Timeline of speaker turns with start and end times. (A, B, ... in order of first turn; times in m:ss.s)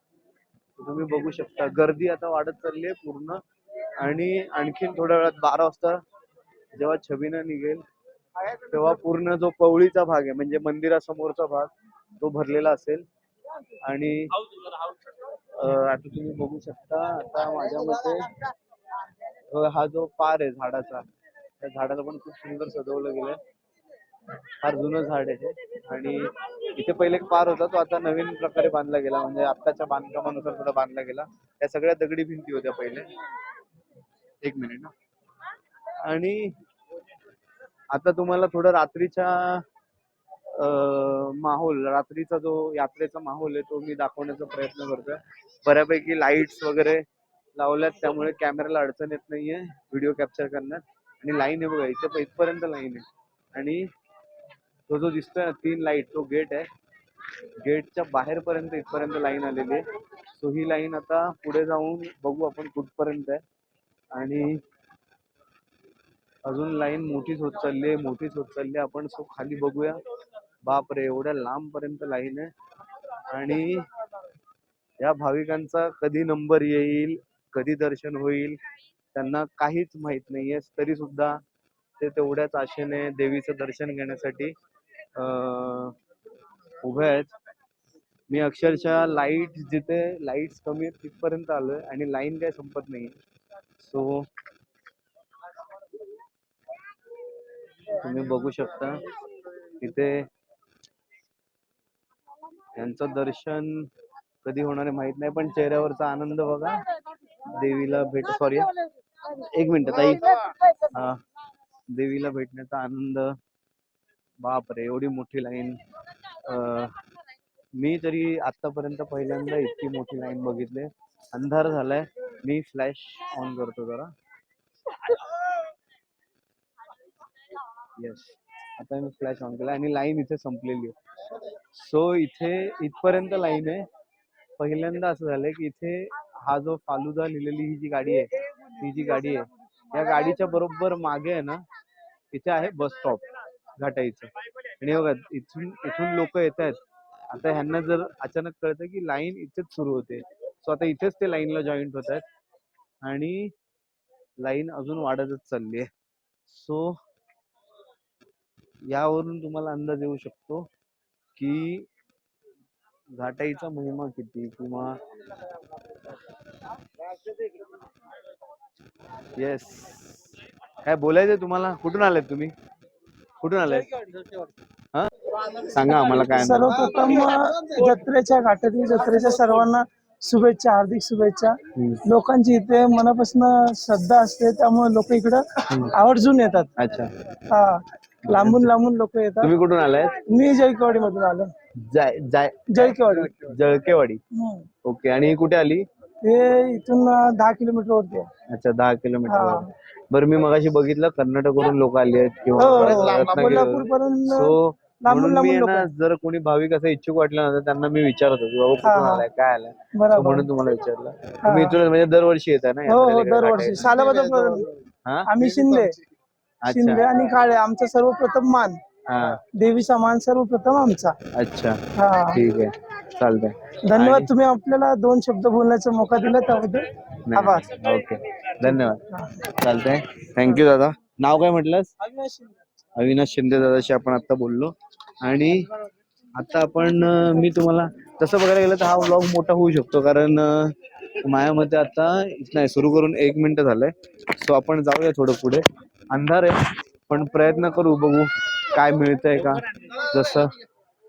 0:00.8-0:03.4 A
0:04.0-0:06.0 A
0:06.8-0:07.8 A
0:08.7-0:13.1 A
0:13.8-0:14.3 A
0:15.6-0:18.3 A
0:19.5-0:21.1 A
0:21.6-0:23.4 A
0:24.6-0:33.1 A
0:34.4-0:34.9 A
0:36.0-0:36.6 A
0:37.9-0:39.6 A
0:40.5-0:53.9 A
0:54.9-0:56.7 A
0:57.6-1:03.4 A
1:04.1-1:04.6 A
1:06.4-1:10.0 A
1:10.6-1:12.5 A
1:13.3-1:13.9 A
1:15.0-1:18.6 A
1:19.1-1:21.4 A
1:22.0-1:24.5 A
1:25.2-1:26.0 A
1:26.8-1:27.3 A
1:28.3-1:33.2 A
1:33.8-1:34.3 A
1:37.9-1:39.0 A
1:39.8-1:40.3 A
1:42.8-1:43.9 A
1:44.4-1:46.8 A
1:47.5-1:48.7 A
1:49.3-1:51.2 A
1:51.9-1:53.4 A
1:54.4-1:55.8 A
1:56.4-1:56.9 A
1:57.8-2:04.1 A
2:08.0-2:11.0 A
2:11.7-2:13.9 A
2:14.6-2:21.6 A
2:22.3-2:26.8 A
2:27.3-2:32.2 A
2:33.0-2:33.5 A
2:34.4-2:35.9 A
2:36.5-2:37.0 A
2:38.9-2:40.7 A
2:41.4-2:41.9 A
2:43.2-2:45.0 A
2:47.1-2:47.7 A
2:49.4-2:50.2 A
2:50.8-2:52.5 A
2:53.4-2:54.1 A
2:54.9-2:56.9 A
2:56.3-3:06.7 B
3:01.8-3:02.0 A
3:06.8-3:07.1 A
3:07.5-3:09.5 B
3:08.2-3:08.7 A
3:09.4-3:10.2 A
3:10.2-3:11.5 B
3:11.8-3:12.7 A
3:12.7-3:13.4 B
3:13.3-3:14.2 A
3:14.4-3:14.7 B
3:14.8-3:15.9 A
3:16.2-3:18.3 B
3:18.5-3:35.9 A
3:19.3-3:19.7 B
3:22.6-3:25.9 B
3:28.8-3:29.2 B
3:30.0-3:30.5 B
3:31.5-3:31.8 B
3:32.9-3:34.7 B
3:35.3-3:36.0 B
3:36.6-3:37.1 A
3:36.7-3:38.8 B
3:39.1-3:39.4 A
3:39.5-3:41.2 B
3:41.3-3:41.8 A
3:42.0-3:42.4 B
3:42.3-3:44.3 A
3:43.9-3:47.7 B
3:47.2-3:49.0 A
3:48.7-3:49.3 B
3:49.6-3:51.9 A
3:53.0-3:55.7 A
3:56.3-4:10.5 A